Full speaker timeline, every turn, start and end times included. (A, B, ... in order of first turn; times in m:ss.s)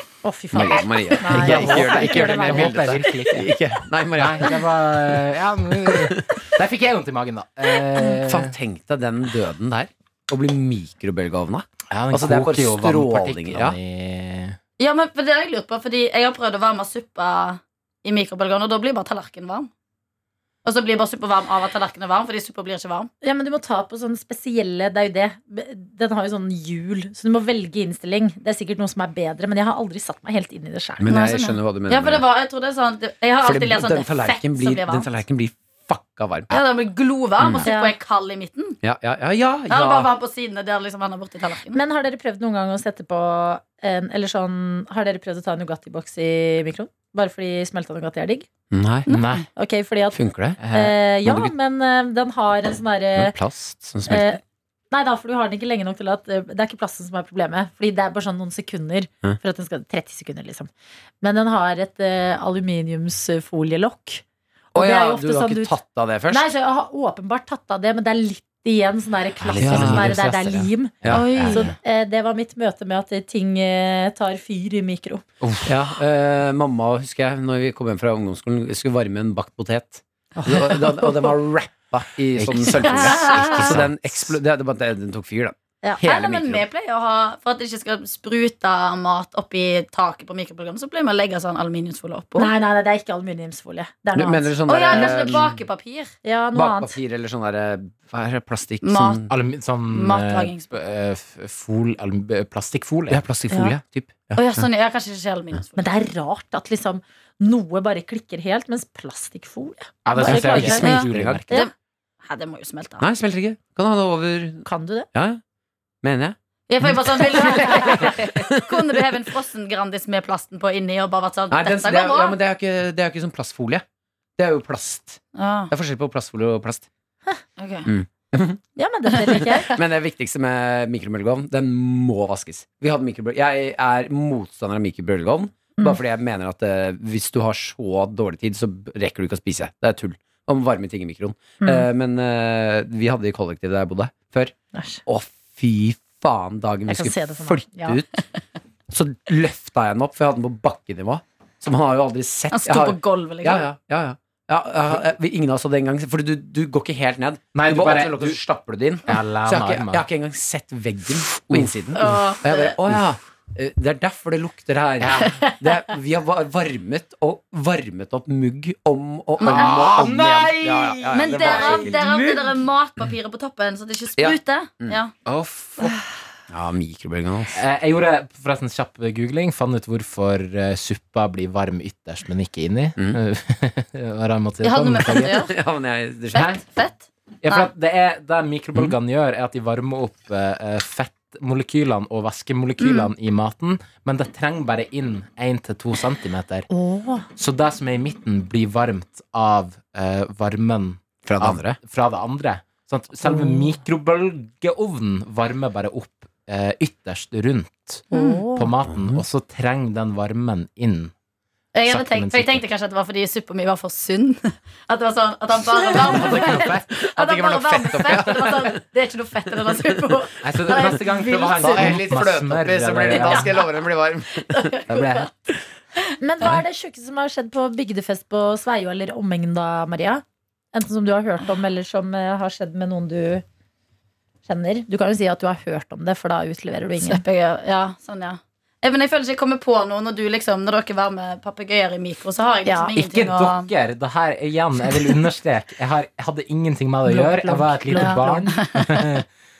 0:00.2-0:03.0 A
0:00.5-0:04.6 B
0:01.4-0:03.5 C
0:04.2-0:08.5 C
0:05.9-0:06.3 B
0:08.3-0:13.8 B
0:11.9-0:14.6 C
0:14.8-0:19.7 D
0:20.6-0:23.1 D
0:23.2-0:31.1 A
0:31.0-0:32.3 B
0:31.1-0:35.1 D
0:33.4-0:36.6 B
0:36.5-0:38.8 D
0:37.4-0:37.7 B
0:37.7-0:38.0 A
0:38.8-0:40.1 B
0:39.7-0:41.8 D
0:41.7-0:48.5 A
0:48.7-0:49.1 B
0:49.1-0:49.4 D
0:49.1-0:49.4 C
0:49.6-0:50.2 A
0:50.1-0:50.6 B
0:50.6-0:51.0 C
0:50.7-0:53.3 A
0:51.3-0:51.5 B
0:53.2-0:54.4 B
0:54.1-1:00.7 A
1:01.2-1:05.7 A
1:04.7-1:06.5 B
1:06.3-1:15.2 A
1:09.4-1:11.8 C
1:09.6-1:10.1 B
1:11.1-1:11.4 B
1:11.1-1:11.7 D
1:15.4-1:15.7 C
1:15.7-1:26.7 B
1:22.4-1:24.4 C
1:23.0-1:23.8 A
1:26.0-1:32.5 D
1:32.4-1:35.4 A
1:34.2-1:35.6 B
1:34.7-1:36.1 D
1:36.2-1:37.0 A
1:36.5-1:39.3 B
1:38.8-1:39.3 D
1:39.3-1:43.2 C
1:39.9-1:40.7 D
1:43.1-1:44.7 B
1:44.4-1:45.9 D
1:45.8-1:50.9 A
1:50.0-1:51.6 C
1:50.3-1:51.5 B
1:50.8-1:51.7 D
1:52.2-1:53.0 D
1:53.0-1:55.4 B
1:54.6-1:55.1 A
1:56.0-1:59.1 B
1:56.7-2:02.4 D
1:57.5-1:57.8 A
2:01.5-2:03.8 B
2:04.4-2:06.9 B
2:05.4-2:05.7 D
2:07.6-2:07.9 D
2:07.9-2:08.6 B
2:08.8-2:09.7 A
2:09.3-2:24.5 B
2:24.7-2:25.0 A
2:25.1-2:28.1 B
2:26.9-2:28.0 A
2:28.9-2:52.5 B
2:32.5-2:33.7 D
2:37.5-2:38.4 C
2:39.1-2:40.0 C
2:41.5-2:42.1 C
2:42.0-2:42.8 D
2:45.0-2:45.4 C
2:45.3-2:45.6 D
2:49.4-2:50.0 D
2:49.4-2:52.4 C
2:51.1-2:55.1 D
2:54.2-2:55.0 B
2:55.3-2:56.0 C
2:56.5-2:57.6 B
2:57.6-3:05.4 C
3:04.6-3:05.5 D
3:05.2-3:06.5 B
3:06.3-3:06.6 C
3:06.3-3:07.7 D
3:07.4-3:16.7 C
3:12.8-3:13.1 D
3:16.7-3:17.3 A
3:17.4-3:31.1 C
3:21.3-3:21.8 B
3:23.3-3:23.6 A
3:28.1-3:28.5 D
3:28.1-3:28.7 A
3:28.9-3:29.2 B
3:31.7-3:42.0 D
3:31.9-3:32.7 C
3:36.1-3:36.9 C
3:36.9-3:38.8 B
3:40.4-3:43.5 C
3:41.6-3:44.7 B
3:43.1-3:43.8 D
3:44.5-3:45.3 D
3:44.9-3:45.3 C
3:46.2-3:53.4 A
3:54.5-3:57.2 A
3:57.0-4:03.7 D
4:02.7-4:02.9 A
4:03.0-4:09.2 C
4:07.1-4:08.5 A
4:07.9-4:09.0 D